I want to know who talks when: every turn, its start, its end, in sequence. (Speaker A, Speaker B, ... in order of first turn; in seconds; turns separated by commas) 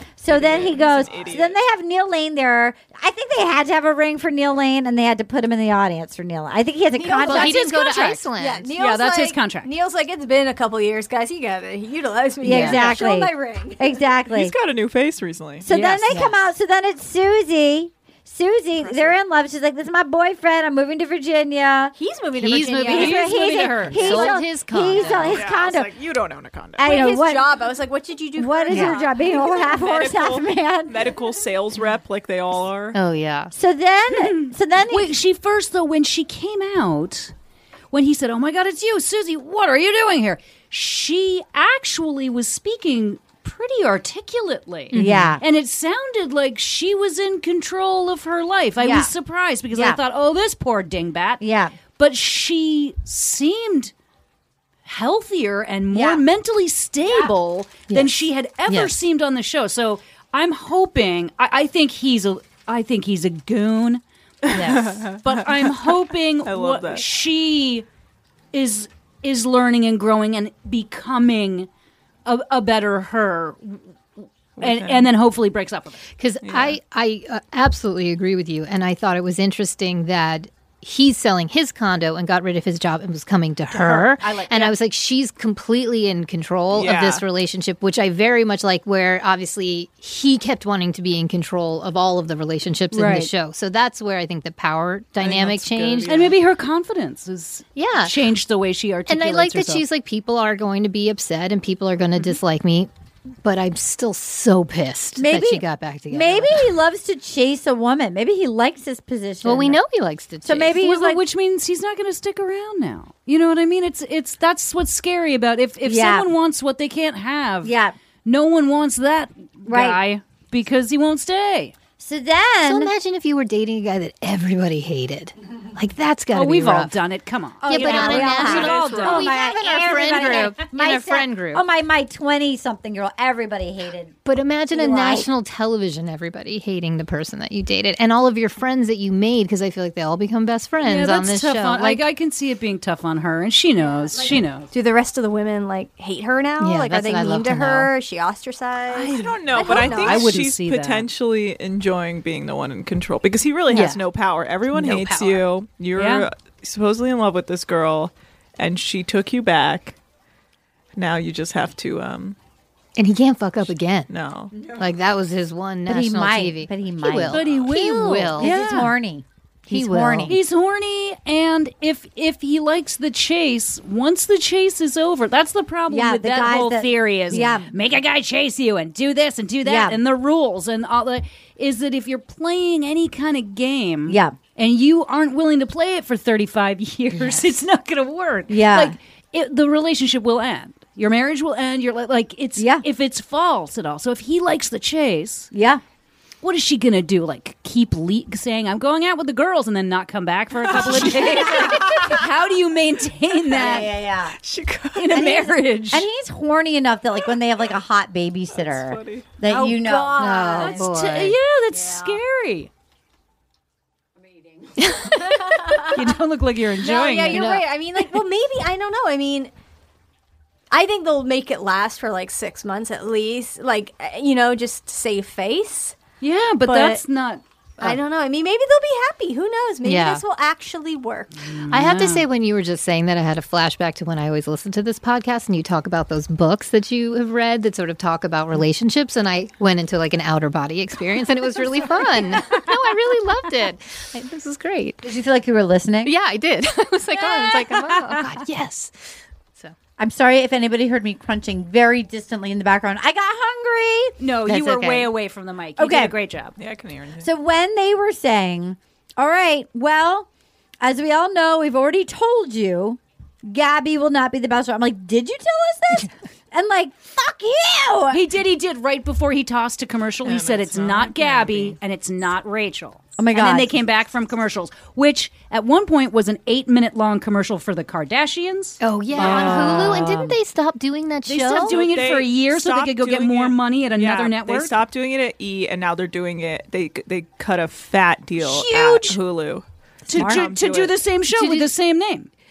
Speaker A: 0.2-7.6, Speaker B: 0.3-1.6, Speaker C: 6.9-14.0, Speaker D: 7.2-8.7, Speaker E: 7.7-8.2, Speaker E: 8.7-9.7, Speaker A: 12.4-14.5, Speaker D: 12.4-12.9, Speaker B: 14.3-15.7, Speaker A: 15.6-21.9, Speaker E: 15.7-16.2, Speaker D: 16.1-16.4, Speaker C: 18.8-19.1, Speaker C: 21.9-23.6, Speaker D: 22.4-25.4, Speaker E: 22.9-24.3, Speaker A: 22.9-25.9, Speaker B: 25.3-26.9, Speaker A: 26.8-27.6, Speaker C: 26.8-29.8, Speaker A: 28.4-31.0, Speaker B: 29.6-33.0, Speaker D: 32.9-33.5, Speaker A: 33.5-35.1, Speaker E: 34.1-37.3, Speaker E: 37.9-51.4, Speaker D: 44.9-45.4, Speaker A: 44.9-45.4, Speaker A: 48.8-49.1, Speaker A: 49.7-50.0, Speaker A: 51.4-51.8, Speaker E: 52.0-53.9, Speaker E: 54.8-64.0, Speaker A: 55.9-56.2, Speaker D: 57.9-58.1, Speaker D: 58.7-58.9, Speaker B: 64.4-67.0, Speaker D: 64.5-65.0, Speaker E: 64.6-67.8, Speaker E: 68.5-71.7, Speaker E: 72.2-73.8, Speaker B: 74.6-75.1, Speaker E: 74.6-76.0, Speaker D: 76.2-96.2, Speaker B: 76.4-76.8, Speaker E: 83.7-84.7, Speaker B: 86.7-87.2, Speaker E: 92.9-93.3, Speaker B: 95.2-96.4, Speaker E: 96.0-99.8, Speaker D: 97.8-98.1, Speaker D: 99.1-102.9, Speaker D: 103.4-106.7, Speaker A: 105.2-109.8, Speaker D: 109.4-110.8, Speaker A: 110.4-111.2, Speaker E: 110.8-117.7, Speaker A: 115.8-116.3, Speaker A: 117.6-118.0, Speaker E: 118.2-121.7, Speaker A: 119.7-120.0, Speaker A: 122.0-122.9, Speaker D: 122.7-126.9, Speaker E: 126.3-129.3, Speaker A: 127.6-134.2, Speaker D: 127.6-131.6, Speaker D: 134.2-142.0, Speaker A: 134.7-135.2, Speaker E: 140.8-144.7, Speaker C: 144.0-150.3, Speaker D: 146.6-147.9, Speaker B: 148.9-159.9, Speaker E: 149.6-151.1, Speaker D: 153.7-154.0, Speaker D: 154.7-155.4, Speaker E: 155.9-156.3, Speaker B: 160.9-162.4, Speaker D: 162.9-164.1, Speaker B: 164.1-164.5, Speaker D: 164.6-168.6, Speaker A: 165.9-167.4, Speaker E: 167.3-168.9, Speaker A: 168.4-170.4, Speaker D: 169.7-170.3, Speaker E: 170.3-195.5, Speaker A: 175.9-177.7, Speaker A: 179.6-180.0, Speaker A: 184.1-184.3, Speaker A: 188.5-188.9, Speaker A: 192.6-192.8, Speaker A: 195.5-195.8, Speaker E: 196.4-203.9, Speaker B: 200.7-202.2, Speaker A: 201.0-201.9, Speaker A: 203.5-204.3, Speaker B: 204.4-205.2, Speaker E: 204.9-206.1, Speaker A: 205.1-210.6, Speaker B: 208.5-209.3, Speaker C: 209.5-210.9, Speaker D: 210.1-211.4, Speaker E: 210.5-212.7, Speaker C: 211.8-212.2, Speaker D: 214.8-215.6, Speaker C: 215.2-216.0, Speaker E: 215.9-217.5, Speaker C: 216.8-219.5, Speaker D: 217.3-217.7, Speaker C: 220.7-226.0, Speaker E: 226.2-227.4, Speaker C: 226.6-227.0, Speaker C: 227.8-231.3, Speaker D: 229.8-230.2, Speaker E: 231.4-232.2, Speaker D: 231.7-245.1, Speaker E: 242.3-242.7, Speaker A: 245.0-246.1, Speaker D: 246.0-248.9, Speaker A: 250.0-255.1, Speaker E: 254.2-256.5, Speaker A: 255.8-256.1, Speaker B: 256.6-257.3, Speaker A: 257.2-260.3, Speaker A: 260.8-268.2, Speaker E: 268.1-280.1, Speaker B: 270.2-271.8, Speaker A: 273.2-273.8, Speaker D: 278.8-281.8, Speaker A: 279.2-280.4, Speaker E: 281.3-284.8, Speaker B: 281.5-291.0, Speaker E: 288.4-289.2, Speaker A: 290.1-290.5, Speaker E: 290.1-292.3, Speaker D: 291.3-291.7